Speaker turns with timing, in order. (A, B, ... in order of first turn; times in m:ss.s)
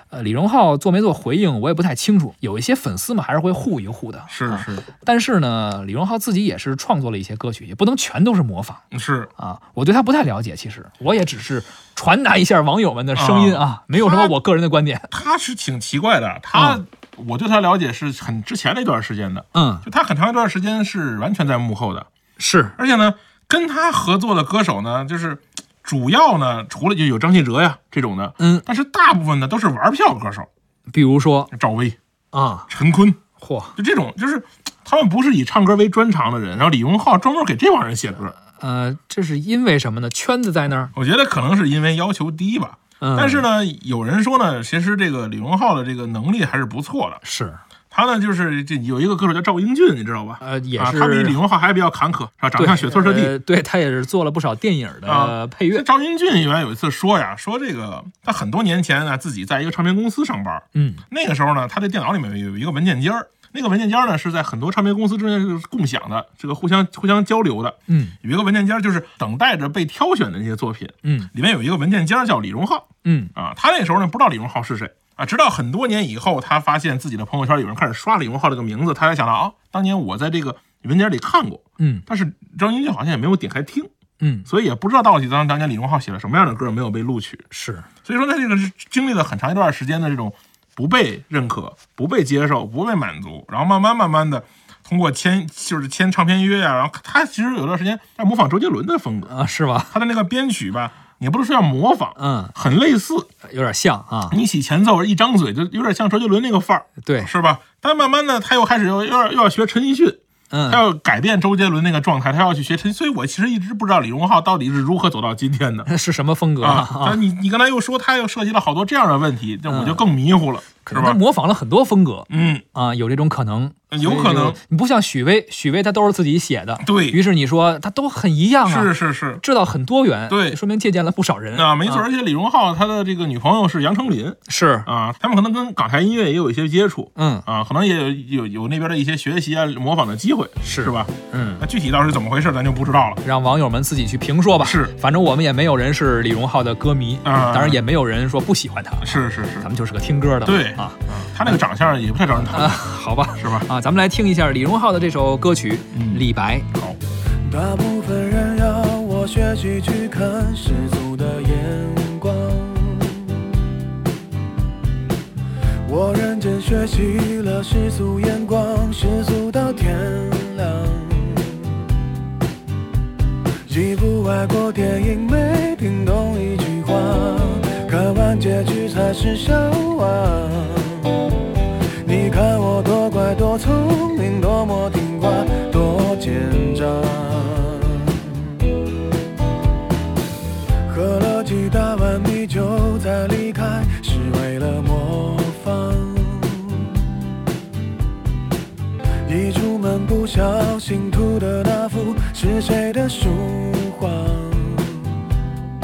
0:00.1-0:08.8 A
0:04.3-0:04.8 B
0:08.9-0:09.3 B
0:09.4-0:15.1 A
0:13.2-0:14.3 B
0:15.1-0:22.1 B
0:16.5-0:16.8 A
0:19.5-0:19.8 A
0:22.4-0:22.8 A
0:22.8-0:30.5 B
0:28.4-0:28.6 A
0:30.9-0:31.5 A
0:31.5-0:32.0 B
0:32.3-0:32.7 A
0:32.7-0:33.2 B
0:33.4-0:33.7 A
0:33.8-0:38.4 B
0:38.6-0:40.9 A
0:40.9-0:47.2 B
0:43.0-0:43.4 A
0:47.2-0:47.6 A
0:47.9-0:53.3 B
0:50.4-0:51.4 A
0:52.6-0:55.8 A
0:55.0-1:23.9 B
1:00.7-1:01.0 A
1:07.9-1:08.1 A
1:11.0-1:11.3 A
1:13.0-1:13.3 A
1:21.8-1:22.0 A
1:24.2-1:24.5 A
1:24.5-1:27.4 B
1:27.5-1:27.9 A
1:28.0-1:39.3 B
1:39.3-1:39.9 A
1:39.9-1:43.3 B
1:42.2-1:42.5 A
1:43.4-1:44.4 A
1:44.3-1:55.9 B
1:47.0-1:47.3 A
1:50.5-1:50.8 A
1:55.9-1:57.2 A
1:56.6-2:01.2 B
1:59.7-2:00.1 A
2:00.8-2:12.0 A
2:02.3-2:02.6 B
2:03.9-2:04.6 B
2:06.8-2:07.2 B
2:08.6-2:09.4 B
2:10.3-2:10.6 B
2:11.5-2:23.2 B
2:14.5-2:14.9 A
2:17.2-2:17.4 A
2:20.6-2:21.6 A
2:23.2-2:31.0 A
2:24.6-2:24.9 B
2:27.2-2:27.8 B
2:29.0-2:29.7 B
2:30.4-2:32.8 B
2:32.5-2:36.7 A
2:33.4-2:33.7 B
2:35.9-2:37.0 B
2:37.4-2:43.5 C
2:45.8-2:51.8 C
2:53.7-3:01.3 C
3:02.0-3:08.5 C
3:10.8-3:17.1 C
3:19.2-3:25.3 C